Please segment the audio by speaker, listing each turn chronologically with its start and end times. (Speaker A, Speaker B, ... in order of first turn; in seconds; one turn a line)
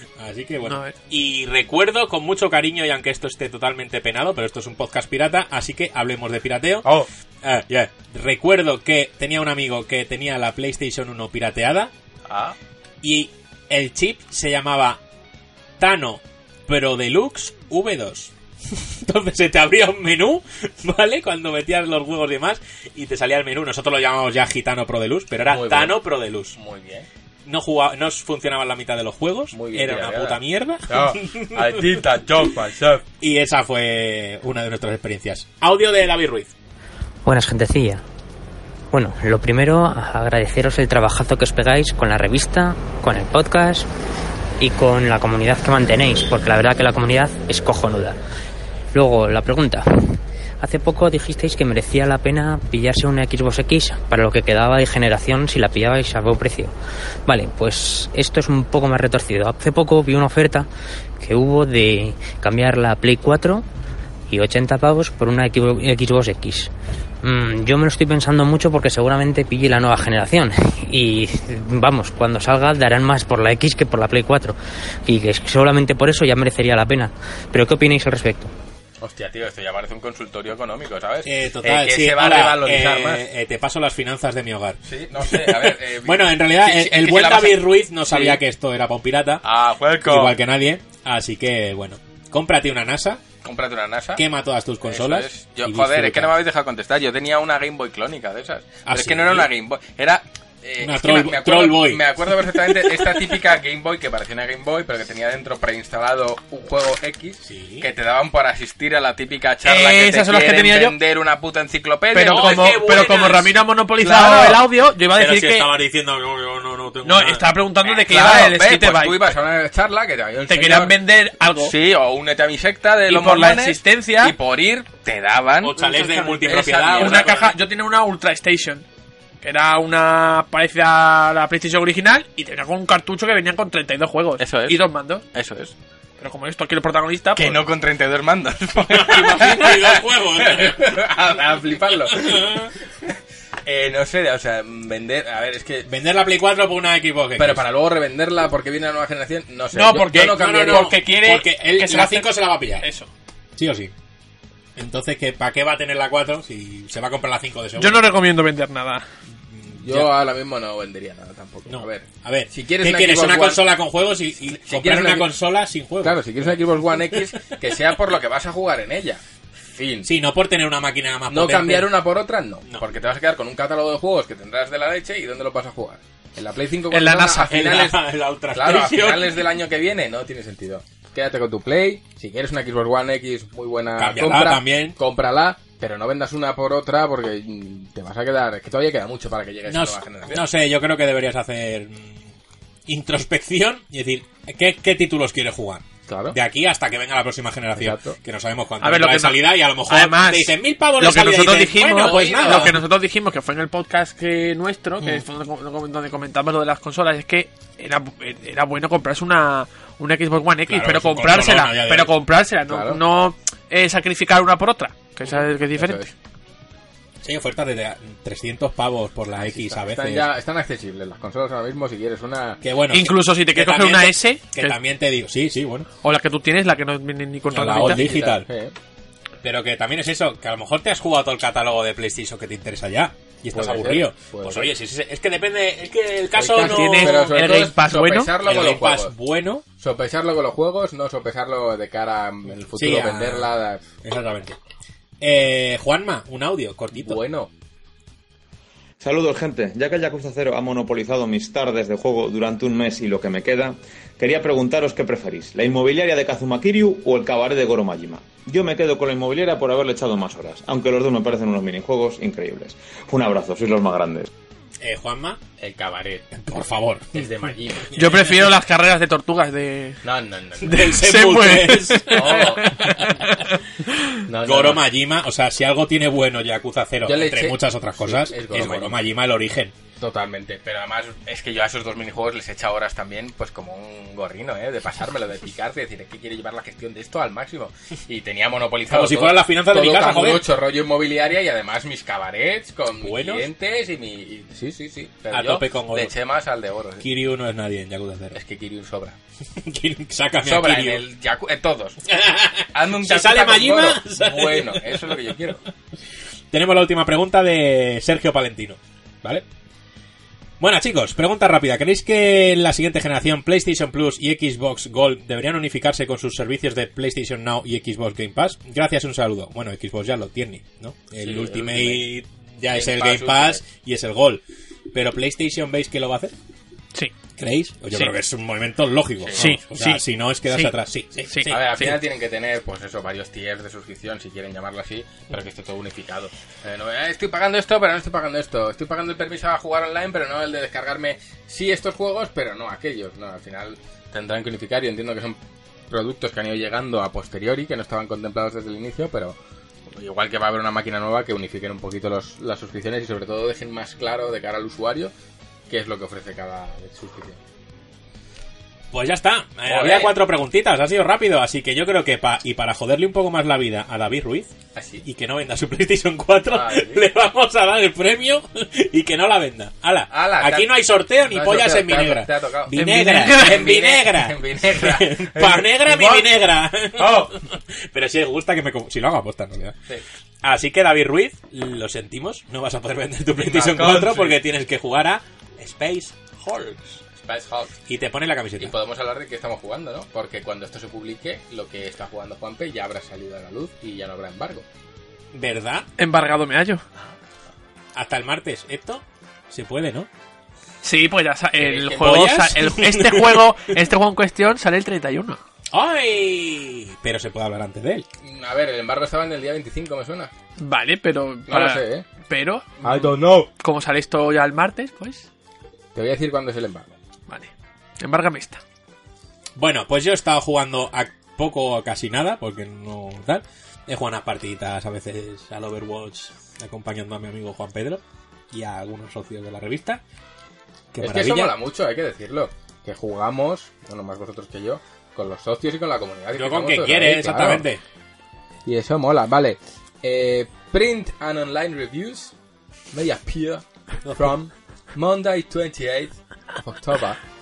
Speaker A: 0.2-6.9
Speaker B: 0.7-0.9
Speaker A: 7.4-11.9
Speaker C: 12.3-12.6
Speaker A: 13.0-15.0
Speaker A: 15.8-26.6
Speaker C: 25.5-26.0
Speaker C: 26.6-27.1
Speaker A: 27.4-32.0
Speaker C: 29.5-33.0
Speaker A: 33.2-36.5
Speaker D: 37.2-38.0
Speaker D: 38.9-43.9
Speaker D: 44.6-48.2
Speaker D: 48.9-56.7
Speaker D: 57.3-60.7
Speaker D: 61.2-63.6
Speaker D: 64.3-66.7
Speaker D: 67.2-78.5
Speaker C: 79.0-83.2
Speaker A: 81.2-89.4
Speaker C: 84.8-88.4
Speaker C: 89.4-90.3
Speaker A: 90.0-93.2
Speaker C: 93.4-94.2
Speaker A: 94.2-96.3
Speaker C: 94.8-112.9
Speaker A: 98.9-99.5
Speaker A: 100.8-103.2
Speaker A: 107.4-107.9
Speaker B: 109.7-111.0
Speaker B: 112.1-115.7
Speaker A: 112.3-113.5
Speaker C: 114.0-114.6
Speaker A: 115.1-117.5
Speaker B: 117.0-119.3
Speaker C: 117.8-121.0
Speaker B: 120.5-121.8
Speaker C: 121.6-125.8
Speaker B: 123.1-124.3
Speaker A: 125.6-127.5
Speaker B: 125.8-128.8
Speaker C: 126.4-127.5
Speaker B: 129.4-135.2
Speaker C: 134.4-134.8
Speaker C: 135.3-135.7
Speaker B: 136.2-137.7
Speaker C: 137.4-145.9
Speaker A: 138.8-141.1
Speaker A: 142.1-142.7
Speaker A: 145.9-147.6
Speaker C: 147.4-151.0
Speaker B: 149.7-153.1
Speaker A: 150.2-152.9
Speaker A: 153.6-153.9
Speaker A: 154.8-158.1
Speaker B: 157.8-159.0
Speaker A: 159.5-160.2
Speaker C: 159.8-163.6
Speaker A: 161.7-166.6
Speaker C: 164.6-165.3
Speaker C: 166.0-169.2
Speaker C: 169.7-170.1
Speaker A: 170.0-171.9
Speaker C: 171.3-178.0
Speaker B: 176.9-177.5
Speaker A: 177.4-179.5
Speaker C: 178.5-190.4
Speaker A: 184.0-185.0
Speaker A: 189.7-192.3
Speaker A: 192.9-202.8
Speaker C: 196.1-196.4
Speaker C: 197.8-198.2
Speaker B: 198.8-216.0
Speaker C: 202.1-202.7
Speaker A: 210.7-212.1
Speaker C: 212.7-213.0
Speaker C: 215.2-216.1
Speaker A: 217.2-220.3
Speaker C: 219.3-222.6
Speaker A: 222.6-225.9
Speaker B: 222.9-224.8
Speaker B: 226.0-228.1
Speaker A: 227.5-228.5
Speaker C: 227.7-228.8
Speaker A: 229.4-237.6
Speaker C: 233.5-234.7
Speaker C: 236.3-239.1
Speaker B: 236.6-238.3
Speaker A: 238.4-239.6
Speaker C: 239.8-243.8
Speaker A: 242.7-243.5
Speaker A: 244.0-244.6
Speaker A: 245.2-247.2
Speaker C: 247.0-247.5
Speaker E: 249.0-264.3
Speaker A: 264.8-265.4
Speaker C: 265.6-266.4
Speaker A: 266.3-267.3
Speaker C: 267.1-267.9
Speaker A: 267.9-268.2
Speaker B: 267.9-270.0
Speaker C: 270.0-270.9
Speaker A: 270.6-273.2
Speaker B: 270.6-273.5
Speaker C: 272.1-272.8
Speaker C: 274.3-274.8
Speaker A: 274.4-279.7
Speaker C: 277.0-279.0
Speaker C: 280.0-297.1
Speaker A: 288.9-290.5
Speaker A: 293.0-293.5
Speaker A: 295.3-296.1
Speaker A: 297.0-298.4
Speaker C: 298.3-299.2
Speaker A: 299.6-301.0
Speaker C: 300.4-302.0
Speaker A: 302.1-305.4
Speaker C: 302.7-305.6
Speaker A: 306.5-308.8
Speaker A: 310.6-326.3
Speaker C: 321.2-322.1
Speaker C: 322.7-323.6
Speaker A: 327.4-331.9
Speaker C: 329.2-329.5
Speaker B: 329.4-330.7
Speaker B: 331.3-332.0
Speaker C: 331.5-345.4
Speaker C: 345.9-349.4
Speaker C: 349.9-355.1
Speaker C: 355.7-357.4
Speaker A: 358.9-364.5
Speaker C: 359.7-360.1
Speaker C: 364.8-365.1
Speaker A: 365.0-379.8
Speaker C: 366.5-367.1
Speaker C: 370.1-372.8
Speaker B: 372.8-373.7
Speaker C: 373.3-376.3
Speaker C: 377.0-377.3
Speaker A: 380.4-387.0
Speaker C: 383.4-384.4
Speaker C: 387.2-387.7
Speaker A: 387.9-388.7
Speaker C: 388.6-394.6
Speaker A: 395.3-395.9
Speaker B: 396.0-396.8
Speaker A: 397.9-400.1
Speaker B: 400.8-405.4
Speaker C: 401.6-402.2
Speaker A: 402.0-403.7
Speaker A: 405.7-408.1
Speaker C: 408.2-410.3
Speaker B: 410.6-415.2
Speaker C: 411.5-412.1
Speaker C: 412.8-413.5
Speaker C: 415.9-416.9
Speaker B: 418.0-418.6
Speaker A: 419.6-430.0
Speaker A: 430.9-431.6
Speaker C: 431.0-437.7
Speaker A: 436.3-437.8
Speaker C: 438.7-442.3
Speaker C: 442.9-443.6
Speaker A: 444.1-444.4
Speaker C: 444.2-447.2